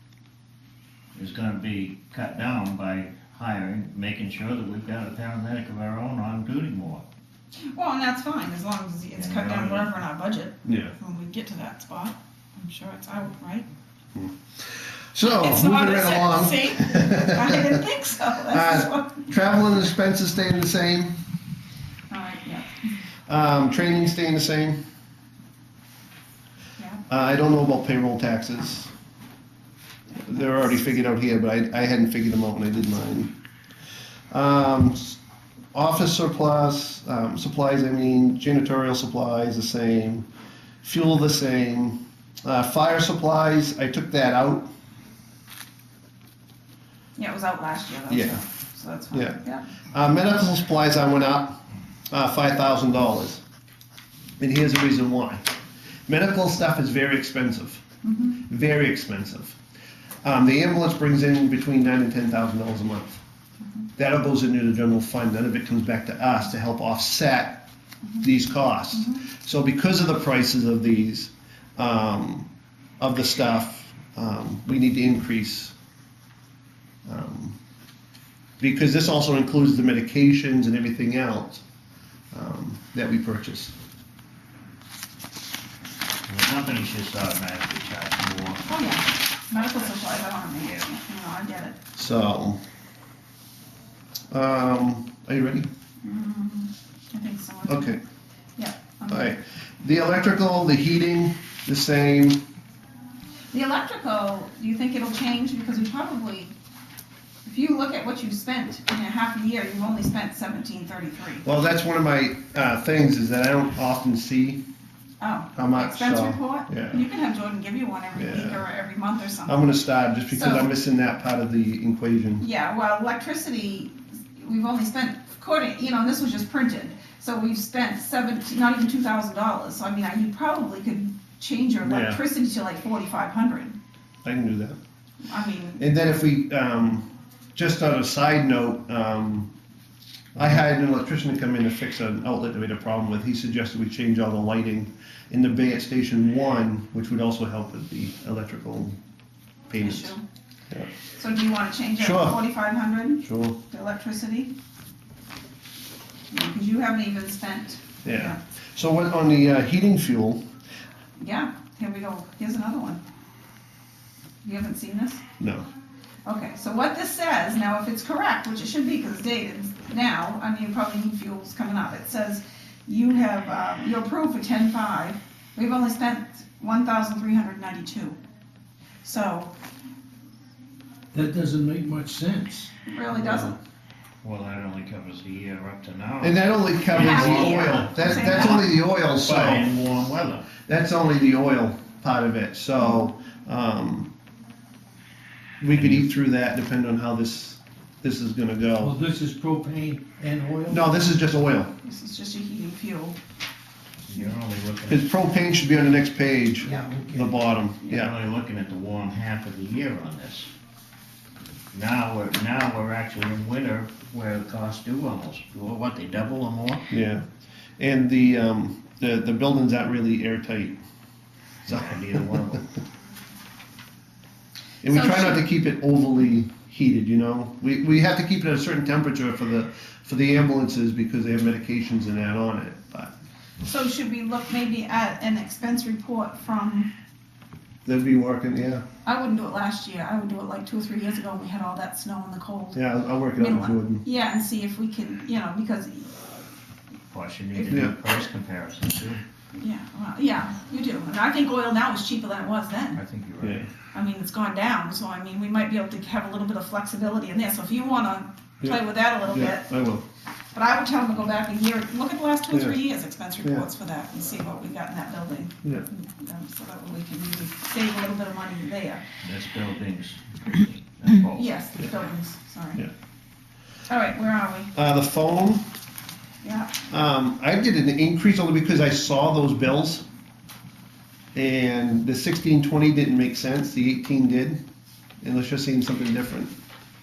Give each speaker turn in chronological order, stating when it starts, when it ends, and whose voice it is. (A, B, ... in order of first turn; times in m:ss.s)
0:01.2-0:07.0 A
0:07.7-0:13.7 B
0:09.2-0:09.9 A
0:10.6-0:10.9 C
0:15.1-0:17.8 C
0:15.2-0:19.2 B
0:18.5-0:21.2 C
0:22.1-0:22.7 B
0:23.3-0:24.8 C
0:27.1-0:28.9 C
0:30.2-0:33.3 C
0:34.3-0:35.2 C
0:35.7-0:40.3 C
0:40.8-0:44.7 C
0:47.2-0:49.6 B
0:48.1-0:48.4 C
0:49.1-0:49.4 C
0:49.9-0:51.6 C
0:52.1-0:53.4 C
0:54.4-0:57.8 C
0:58.0-0:58.4 B
0:58.5-0:59.6 C
1:00.2-1:03.2 C
1:04.0-1:07.6 C
1:08.2-1:12.5 C
1:08.9-1:09.2 B
1:13.0-1:15.7 C
1:17.1-1:17.6 C
1:18.6-1:21.6 C
1:22.3-1:23.7 C
1:26.3-1:28.7 A
1:28.7-1:31.8 B
1:29.7-1:29.9 A
1:30.6-1:30.9 A
1:32.0-1:32.6 C
1:34.3-1:35.7 C
1:36.0-1:38.0 B
1:37.7-1:38.0 C
1:38.6-1:39.3 B
1:39.1-1:42.4 C
1:43.5-1:46.5 B
1:47.4-1:51.5 B
1:51.4-1:54.6 C
1:55.2-1:59.6 B
1:55.6-1:57.0 C
1:58.2-1:58.6 C
1:59.4-2:02.4 C
2:00.3-2:00.7 B
2:02.4-2:13.8 B
2:11.8-2:12.2 C
2:14.2-2:14.8 C
2:15.2-2:15.8 B
2:15.8-2:19.5 C
2:20.4-2:29.0 C
2:29.7-2:30.2 C
2:29.8-2:30.2 B
2:31.2-2:34.5 B
2:32.0-2:32.4 C
2:33.2-2:33.6 C
2:36.3-2:38.4 B
2:38.0-2:40.4 C
2:41.2-2:43.0 B
2:44.4-2:45.2 B
2:45.4-2:45.7 C
2:46.3-2:58.2 B
2:59.0-2:59.5 B
3:01.1-3:03.6 D
3:02.9-3:03.6 B
3:04.2-3:10.5 A
3:06.2-3:09.7 C
3:06.9-3:08.7 B
3:10.7-3:14.1 C
3:15.6-3:19.0 C
3:15.7-3:16.0 A
3:18.8-3:20.8 D
3:20.7-3:21.7 C
3:21.8-3:23.2 B
3:24.0-3:25.1 A
3:24.9-3:28.1 C
3:26.6-3:27.3 D
3:26.7-3:26.9 B
3:27.9-3:30.5 A
3:31.7-3:36.9 A
3:36.9-3:37.2 C
3:37.8-3:40.8 C
3:41.7-3:42.7 A
3:41.7-3:42.6 C
3:44.8-3:53.1 C
3:44.9-3:45.4 B
3:53.6-3:56.9 B
3:57.8-3:58.8 C
3:59.0-4:02.8 B
4:02.8-4:04.0 C
4:03.4-4:06.2 B
4:07.1-4:09.2 A
4:07.6-4:07.9 C
4:09.6-4:13.0 B
4:12.9-4:13.6 A
4:13.4-4:13.7 C
4:13.9-4:19.7 B
4:18.6-4:20.0 C
4:20.5-4:29.0 B
4:22.5-4:22.8 C
4:29.2-4:31.5 A
4:31.4-4:32.8 B
4:33.9-4:34.7 B
4:34.7-4:35.6 C
4:36.4-4:36.7 B
4:36.9-4:40.0 C
4:41.3-4:44.6 C
4:45.2-4:46.5 C